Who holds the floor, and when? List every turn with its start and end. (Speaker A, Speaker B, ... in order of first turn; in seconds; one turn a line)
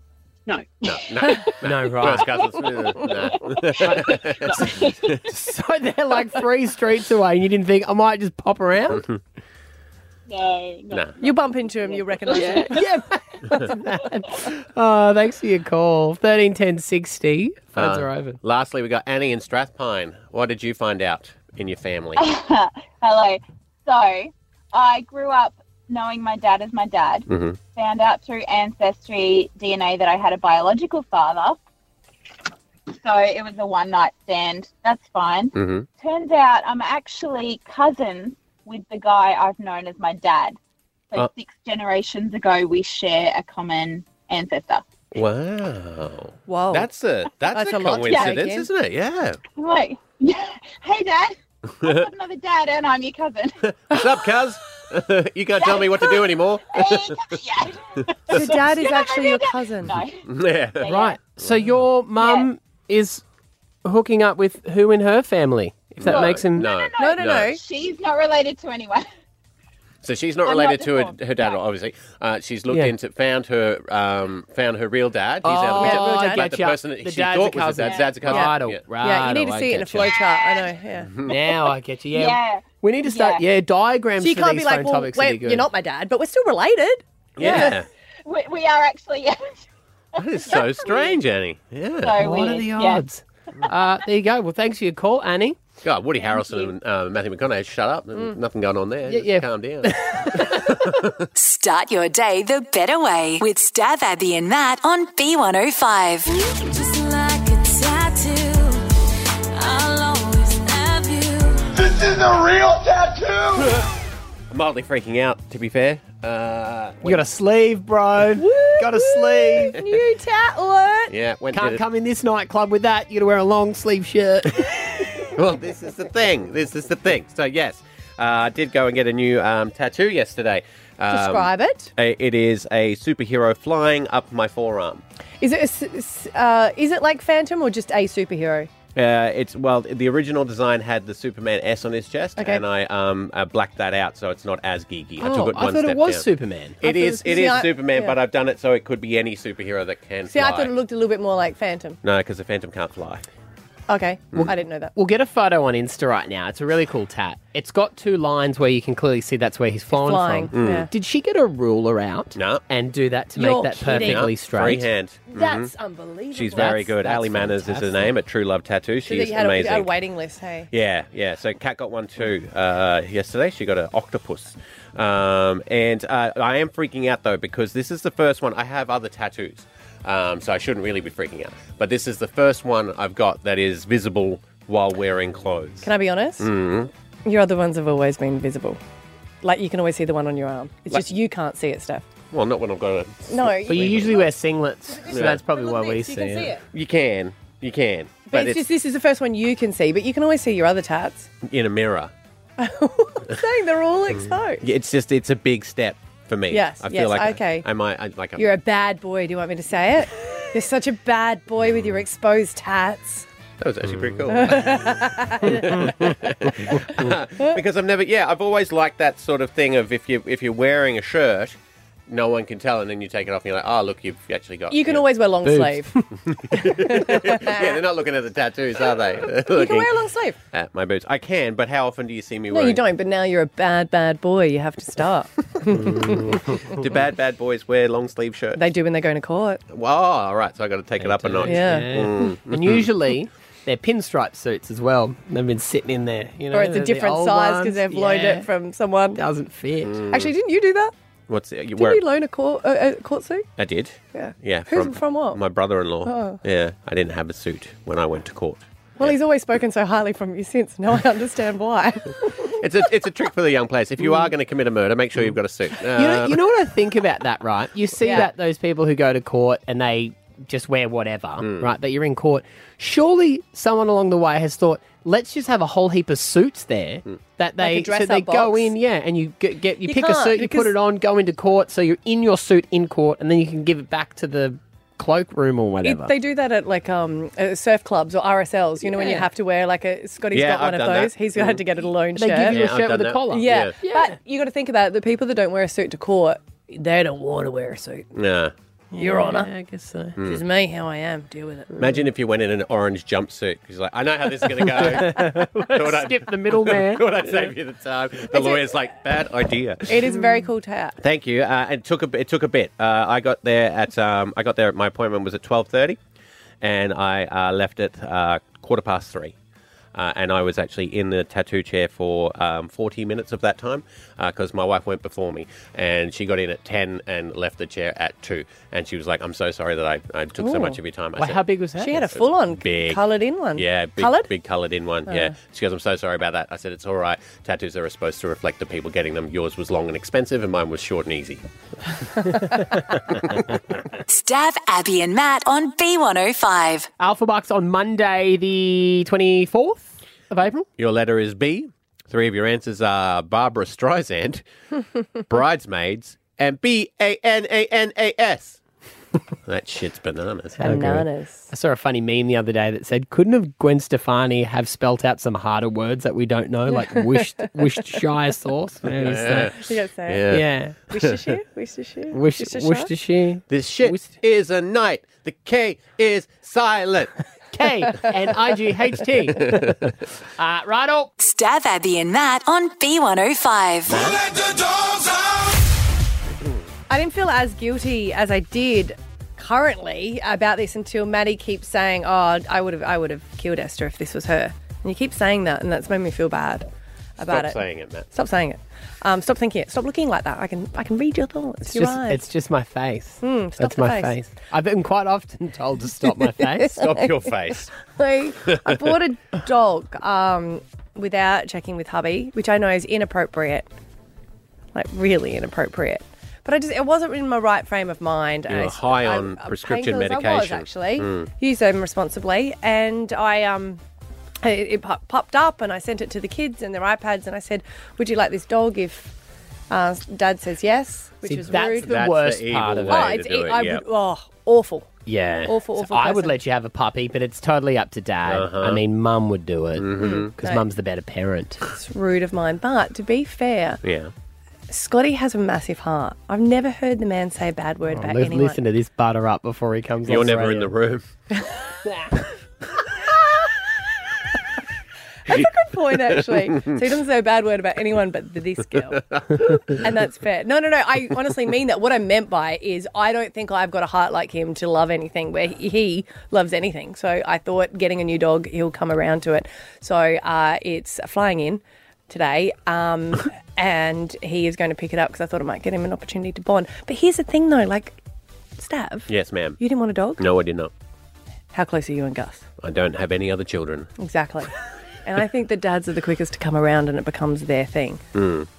Speaker A: 0.5-1.5
Speaker B: 0.8-5.2
Speaker C: 1.6-2.3
Speaker A: 2.2-5.3
Speaker C: 3.8-9.0
Speaker B: 8.9-9.2
Speaker A: 10.3-12.8
Speaker D: 11.2-12.8
Speaker C: 12.4-18.4
Speaker B: 17.8-22.3
Speaker A: 22.2-31.6
Speaker B: 27.3-27.6
Speaker A: 32.9-40.6
Speaker B: 35.5-35.9
Speaker A: 41.1-44.8
Speaker B: 45.1-49.4
Speaker D: 46.5-46.9
Speaker D: 47.5-48.7
Speaker A: 48.0-48.3
Speaker A: 49.5-53.6
Speaker B: 51.8-52.1
Speaker B: 53.6-57.4
Speaker A: 55.6-60.2
Speaker D: 58.3-60.0
Speaker B: 60.2-61.8
Speaker A: 60.8-61.2
Speaker C: 60.8-63.2
Speaker A: 62.2-62.5
Speaker C: 63.8-66.7
Speaker B: 66.0-67.6
Speaker A: 66.0-69.0
Speaker D: 67.0-67.6
Speaker B: 70.0-78.8
Speaker A: 70.4-71.6
Speaker C: 72.7-72.9
Speaker C: 75.4-80.1
Speaker D: 75.7-76.5
Speaker A: 77.8-78.2
Speaker D: 78.3-81.1
Speaker A: 80.4-80.7
Speaker B: 81.0-81.3
Speaker C: 81.2-85.7
Speaker A: 82.1-83.4
Speaker D: 84.2-87.8
Speaker B: 87.4-87.9
Speaker A: 88.2-89.6
Speaker B: 90.2-92.2
Speaker A: 90.2-91.2
Speaker A: 92.0-93.0
Speaker C: 92.2-95.6
Speaker B: 95.8-101.3
Speaker A: 96.2-96.7
Speaker C: 99.1-100.8
Speaker E: 101.3-106.3
Speaker D: 106.5-108.8
Speaker D: 109.6-111.6
Speaker F: 111.7-113.8
Speaker B: 114.5-117.2
Speaker C: 117.0-119.8
Speaker D: 118.3-121.1
Speaker B: 121.1-121.8
Speaker C: 121.5-125.1
Speaker B: 125.3-135.0
Speaker D: 131.1-131.9
Speaker D: 135.4-138.7
Speaker B: 138.9-146.2
Speaker D: 142.4-142.6
Speaker C: 145.2-146.8
Speaker B: 146.8-150.7
Speaker D: 146.8-148.2
Speaker D: 150.3-152.0
Speaker B: 152.0-153.2
Speaker D: 153.9-154.9
Speaker C: 154.9-164.9
Speaker D: 159.9-160.9
Speaker B: 160.5-160.9
Speaker B: 162.3-162.6
Speaker D: 163.3-164.3
Speaker B: 163.9-165.7
Speaker D: 165.3-166.9
Speaker B: 166.3-169.9
Speaker C: 166.5-168.1
Speaker D: 169.1-170.7
Speaker B: 170.7-186.9
Speaker D: 185.8-186.5
Speaker D: 187.2-188.8
Speaker D: 189.4-192.0
Speaker B: 192.3-194.2
Speaker D: 193.3-194.3
Speaker C: 193.6-196.5
Speaker D: 194.9-196.6
Speaker B: 195.1-195.4
Speaker B: 196.7-198.7
Speaker D: 198.3-201.3
Speaker B: 201.4-202.1
Speaker D: 202.6-204.7
Speaker B: 204.6-208.5
Speaker D: 206.5-207.7
Speaker D: 208.4-213.2
Speaker B: 213.6-225.1
Speaker D: 214.3-216.2
Speaker C: 216.8-217.1
Speaker D: 224.7-226.0
Speaker C: 225.4-226.0
Speaker B: 226.4-229.9
Speaker D: 226.5-227.8
Speaker D: 229.4-230.4
Speaker B: 230.5-232.8
Speaker D: 232.5-236.6
Speaker C: 235.7-236.7
Speaker B: 236.7-238.6
Speaker D: 238.6-239.6
Speaker B: 239.7-242.9
Speaker C: 241.0-248.5
Speaker D: 241.4-242.1
Speaker D: 246.5-249.2
Speaker C: 249.1-250.0
Speaker B: 249.8-250.3
Speaker D: 250.1-250.9
Speaker B: 251.3-252.0
Speaker D: 251.8-253.5
Speaker B: 253.6-259.1
Speaker D: 254.1-255.4
Speaker D: 256.0-256.4
Speaker D: 259.0-262.6
Speaker B: 262.6-266.4
Speaker C: 265.9-286.1
Speaker D: 268.0-268.3
Speaker B: 271.4-271.7
Speaker D: 277.6-278.7
Speaker D: 279.8-280.7
Speaker D: 285.8-292.6
Speaker C: 288.8-289.3
Speaker B: 290.3-291.6
Speaker C: 292.1-294.1
Speaker B: 292.4-293.7
Speaker D: 293.3-298.1
Speaker B: 298.1-298.5
Speaker C: 298.9-300.2
Speaker D: 299.0-299.5
Speaker B: 300.2-300.4
Speaker D: 300.2-301.7
Speaker B: 301.8-310.0
Speaker C: 304.6-307.4
Speaker D: 308.3-308.7
Speaker D: 309.9-310.9
Speaker B: 311.0-316.0
Speaker B: 316.6-319.4
Speaker B: 319.9-331.4
Speaker D: 330.4-330.8
Speaker C: 331.2-332.0
Speaker D: 331.8-334.3
Speaker B: 332.0-333.0
Speaker B: 333.5-341.4
Speaker D: 335.1-335.3
Speaker E: 344.1-346.9
Speaker C: 347.0-350.7
Speaker B: 350.8-354.4
Speaker B: 355.3-358.6
Speaker B: 359.4-360.7
Speaker C: 360.6-369.6
Speaker D: 360.6-361.5
Speaker D: 366.7-367.5
Speaker B: 368.9-371.2
Speaker D: 369.5-370.3
Speaker C: 370.3-370.8
Speaker D: 370.9-372.9
Speaker C: 372.1-374.2
Speaker B: 373.5-377.1
Speaker C: 377.5-379.8
Speaker B: 379.4-379.8
Speaker C: 380.4-381.1
Speaker E: 381.2-384.0
Speaker C: 383.9-384.2
Speaker D: 386.9-396.6
Speaker D: 397.2-397.6
Speaker B: 397.2-398.1
Speaker D: 398.1-402.2
Speaker C: 401.7-406.7
Speaker D: 403.2-404.2
Speaker D: 406.4-407.2
Speaker B: 406.7-407.7
Speaker D: 407.9-413.7
Speaker B: 408.4-409.0
Speaker D: 414.7-423.8
Speaker B: 418.5-421.3
Speaker D: 424.4-429.1
Speaker D: 429.7-432.0
Speaker C: 431.2-433.1
Speaker B: 431.6-433.8
Speaker D: 432.9-434.9
Speaker C: 435.1-441.6
Speaker D: 435.5-436.4
Speaker B: 438.2-438.8
Speaker B: 439.8-440.3
Speaker D: 440.0-440.6
Speaker D: 441.7-443.8
Speaker B: 443.8-444.1
Speaker D: 444.7-448.6
Speaker C: 447.9-450.7
Speaker B: 450.1-451.1
Speaker C: 451.8-452.2
Speaker D: 455.3-459.0
Speaker B: 456.1-456.8
Speaker B: 458.9-459.2
Speaker D: 459.8-478.0
Speaker D: 478.6-480.2
Speaker B: 479.1-479.6
Speaker B: 480.2-480.7
Speaker D: 481.5-482.4
Speaker B: 482.6-483.9
Speaker D: 484.0-484.5
Speaker D: 485.0-488.0
Speaker B: 488.1-488.5